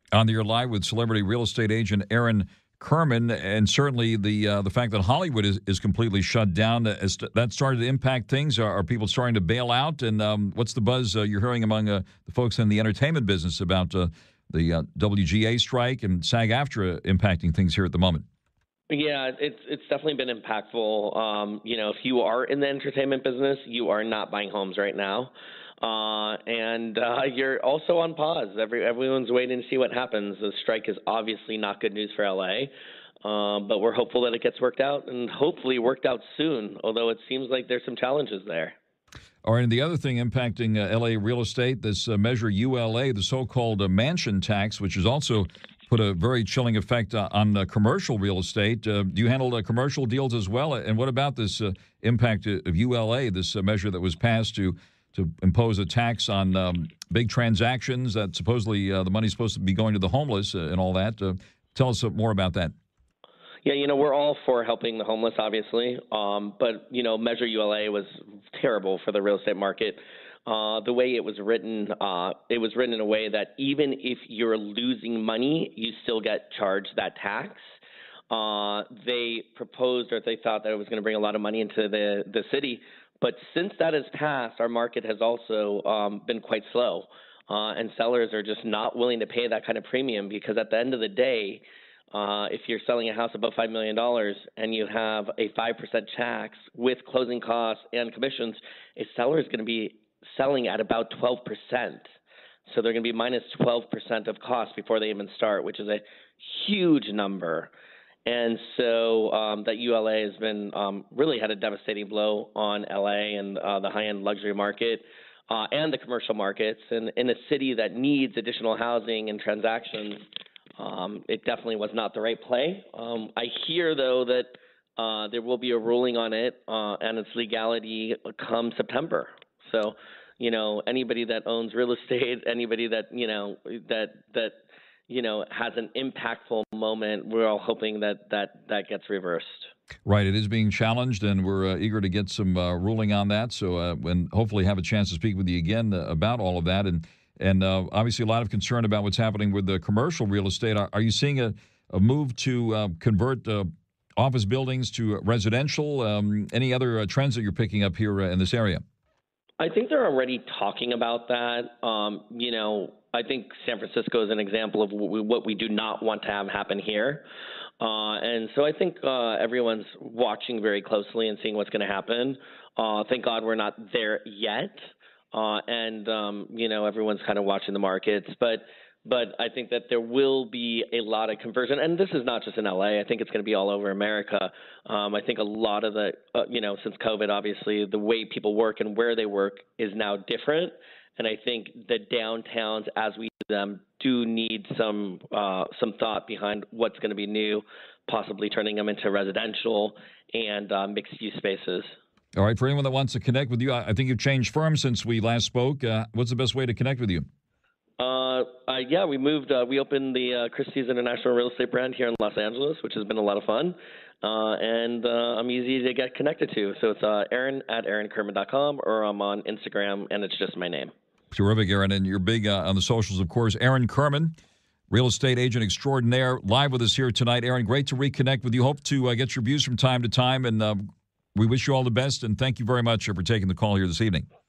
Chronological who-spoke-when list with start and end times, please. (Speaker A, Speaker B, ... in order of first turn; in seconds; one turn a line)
Speaker A: 0.1-18.2
Speaker B: 18.9-32.7
Speaker B: 33.2-38.8
Speaker A: 39.4-62.7
Speaker B: 63.6-77.7
Speaker B: 78.3-102.1
Speaker B: 102.7-107.7
Speaker B: 108.3-120.3
Speaker B: 120.8-134.6
Speaker B: 135.1-139.7
Speaker A: 140.1-158.8
Speaker B: 159.6-167.2
Speaker B: 167.8-201.9
Speaker A: 202.3-207.3
Speaker B: 208.0-220.9
Speaker A: 221.3-224.3
Speaker A: 224.9-234.3